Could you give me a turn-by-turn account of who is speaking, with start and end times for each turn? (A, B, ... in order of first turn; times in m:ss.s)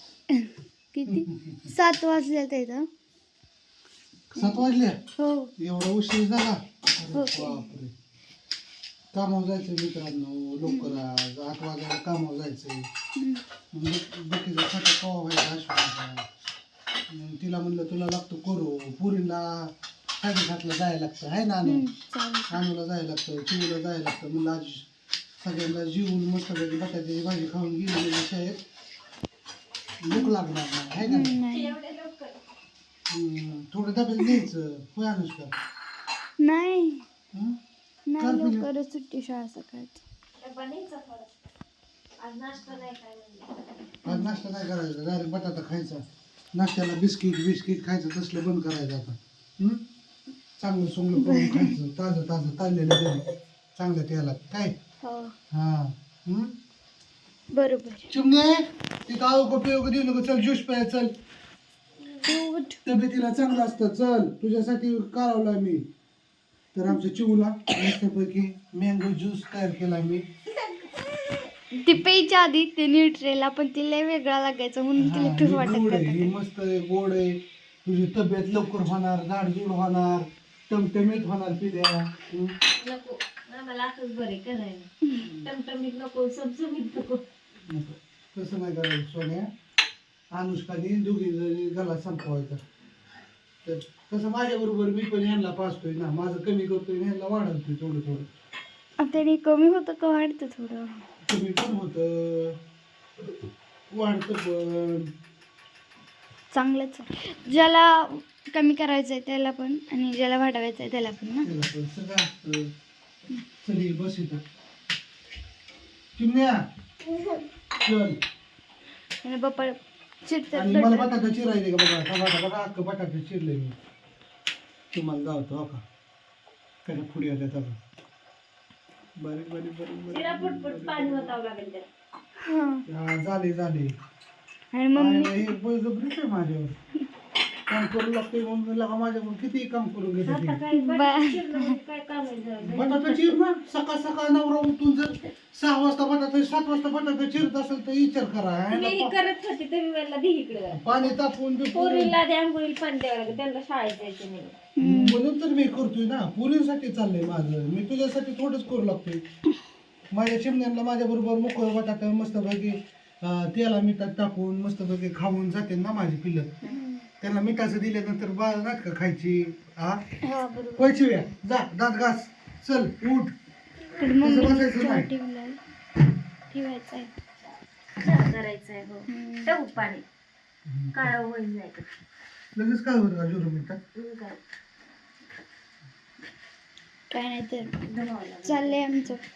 0:00.4-0:02.9 A
0:01.1-0:01.6 B
0:04.3-0:05.0 B
0:05.2-0:05.5 A
0:05.6-0:07.9 B
0:07.1-0:07.6 A
0:09.1-0:12.9 B
0:10.7-0:11.0 A
0:13.2-0:13.4 A
0:13.7-0:16.3 B
0:17.1-0:21.8 B
0:21.6-0:22.6 A
0:22.5-0:24.9 B
0:25.4-0:28.6 B
0:30.0-0:31.4 B
0:31.0-0:31.7 A
0:31.5-0:32.4 C
0:33.1-0:35.5 B
0:36.4-0:37.0 A
0:38.1-0:40.0 A
0:38.2-0:38.7 B
0:40.4-0:41.3 C
0:42.2-0:43.9 C
0:44.0-0:49.8 B
0:50.6-0:54.7 B
0:51.2-0:51.8 A
0:55.0-0:55.3 A
0:55.5-0:56.6 B
0:57.5-0:58.1 A
0:58.1-1:01.1 B
1:02.2-1:02.8 A
1:02.8-1:05.9 B
1:06.7-1:10.3 B
1:11.8-1:16.3 A
1:15.0-1:22.6 B
1:22.7-1:27.2 C
1:27.7-1:29.5 B
1:30.3-1:32.6 B
1:33.6-1:38.3 B
1:39.0-1:40.9 A
1:41.3-1:42.6 B
1:43.9-1:45.1 B
1:46.5-1:51.5 A
1:51.4-1:52.7 B
1:53.6-1:54.4 B
1:56.2-1:56.6 B
1:57.7-1:58.2 B
1:59.2-2:01.2 A
2:00.5-2:03.8 B
2:04.9-2:05.8 B
2:06.8-2:07.8 B
2:09.2-2:11.3 B
2:10.1-2:11.9 C
2:12.5-2:12.8 A
2:12.9-2:13.9 B
2:14.7-2:15.5 A
2:15.0-2:16.7 B
2:17.7-2:20.6 B
2:20.2-2:23.4 C
2:20.7-2:21.8 A
2:22.6-2:29.2 B
2:28.7-2:31.2 C
2:30.7-2:32.2 B
2:31.7-2:34.6 C
2:34.8-2:35.2 A
2:34.8-2:39.2 B
2:40.1-2:46.6 B
2:46.7-2:47.1 A
2:47.2-2:50.0 B
2:50.2-2:51.2 A
2:50.8-2:53.3 B
2:54.0-2:55.6 A
2:54.2-2:55.1 B
2:56.5-2:57.1 A
2:58.0-3:00.0 C
2:59.1-2:59.5 A
3:00.7-3:01.1 B
3:00.9-3:01.9 C
3:02.6-3:03.8 B
3:04.0-3:04.4 C
3:07.1-3:07.7 A
3:07.8-3:08.8 C
3:08.4-3:09.2 A